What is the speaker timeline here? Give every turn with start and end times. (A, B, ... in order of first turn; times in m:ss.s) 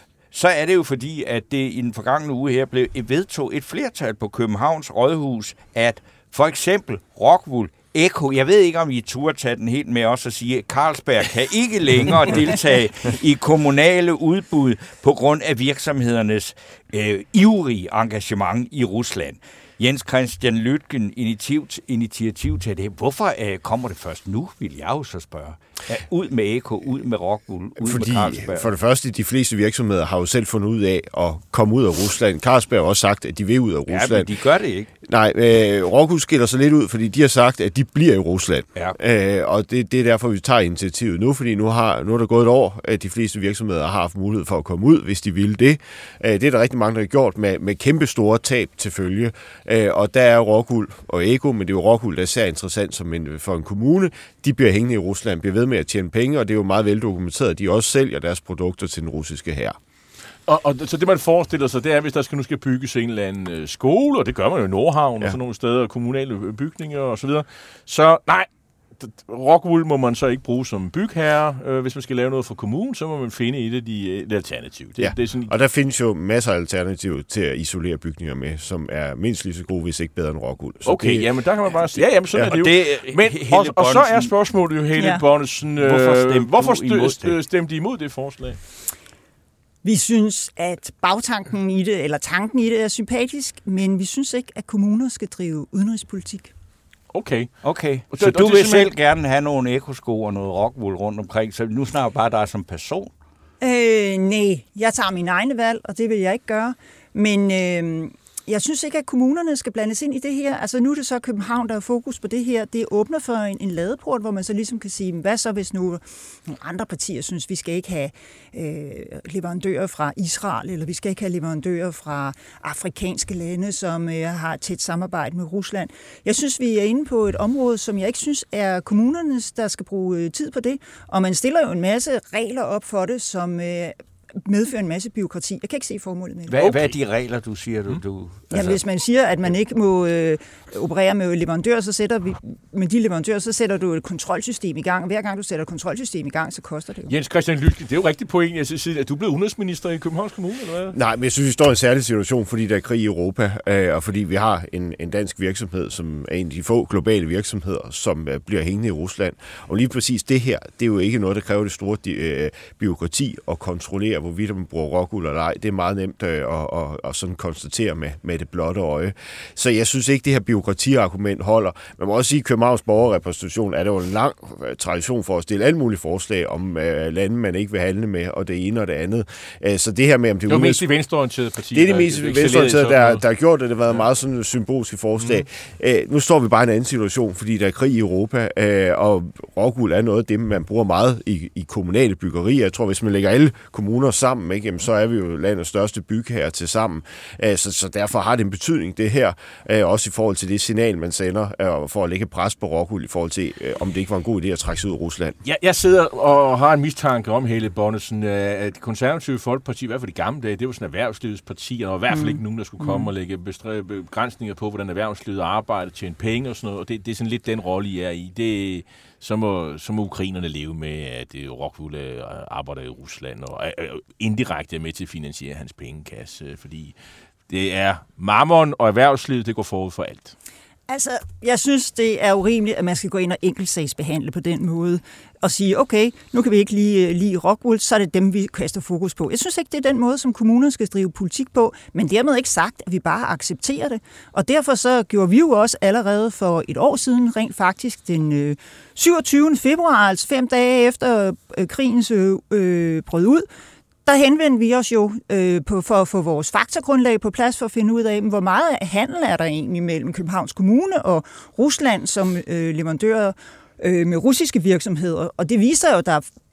0:00.3-0:28.7 A
0:27.8-0:34.4 B
0:33.9-0:34.9 A
0:35.1-0:59.8 B
1:00.5-1:15.6 C
1:15.0-1:21.3 B
1:20.8-1:28.6 C
1:22.5-1:24.3 A
1:25.0-1:25.2 D
1:25.8-1:27.4 A
1:29.8-1:36.5 D
1:37.1-1:37.6 C
1:37.6-1:43.1 A
1:38.1-1:38.9 C
1:43.6-2:16.6 D
2:16.5-2:18.8 A
2:16.6-2:17.0 C
2:18.5-2:27.1 D
2:27.1-2:31.0 C
2:30.9-3:00.9 B
3:00.5-3:03.2 C
3:01.7-3:25.4 B
3:05.2-3:05.4 C
3:25.4-3:47.0 C
3:32.1-3:33.1 D
3:47.5-3:50.3 C
3:50.9-4:13.5 D
4:14.1-4:26.3 D